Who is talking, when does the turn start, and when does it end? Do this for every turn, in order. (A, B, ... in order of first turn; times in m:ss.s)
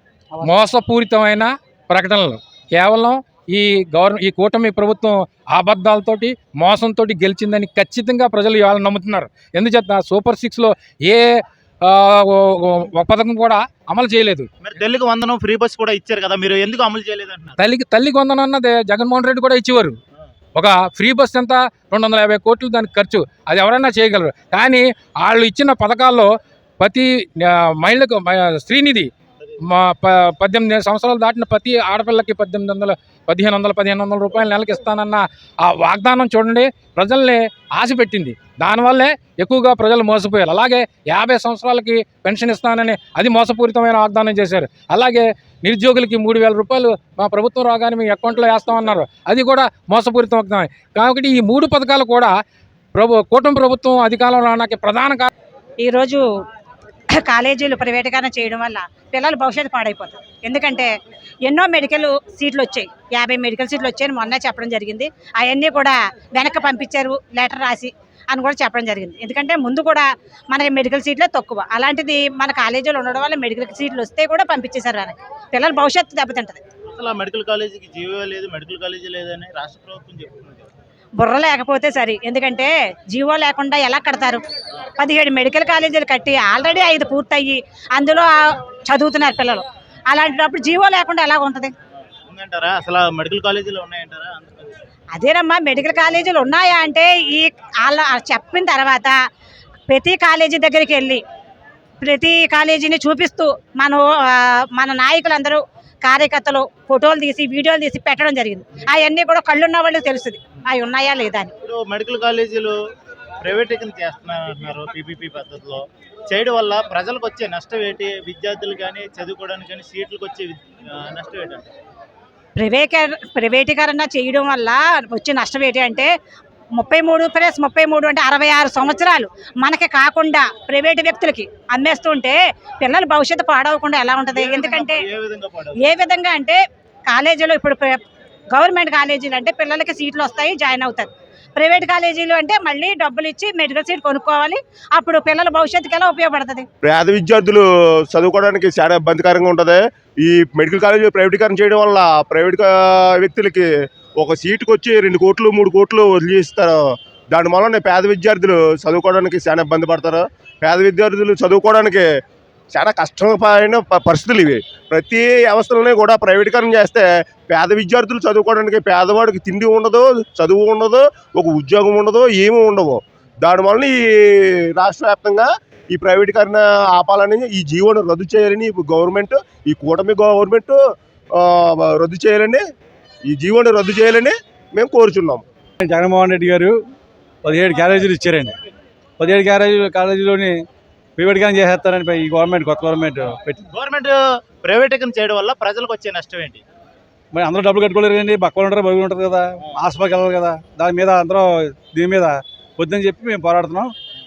0:00.4-0:11.3 A
0:11.8-0:14.5 A
0:14.6-0:17.6 B
0:17.6-0:20.0 A
0:20.6-0:26.3 A
0:26.8-0:29.1 A
0:29.7-0:52.3 A
0:53.0-0:55.3 A
0:55.8-0:56.2 C
0:57.2-1:00.9 C
1:01.4-1:16.6 C
1:16.9-1:20.7 B
1:21.2-1:24.4 C
1:25.0-1:31.7 C
1:32.3-1:34.8 B
1:35.1-1:39.2 C
1:39.9-1:41.2 C
1:42.0-1:51.5 C
1:51.6-1:52.8 B
1:53.4-2:01.7 B
2:02.6-2:06.1 C
2:06.8-2:15.0 C
2:14.3-2:15.9 B
2:15.8-2:18.0 C
2:18.5-2:26.7 C
2:26.8-2:42.1 D
2:42.7-3:02.7 D
3:03.2-3:05.4 D
3:05.8-3:06.8 E
3:07.4-3:08.6 E
3:09.2-3:10.6 E
3:11.2-3:13.6 E
3:13.7-3:16.6 B
3:17.3-3:23.9 E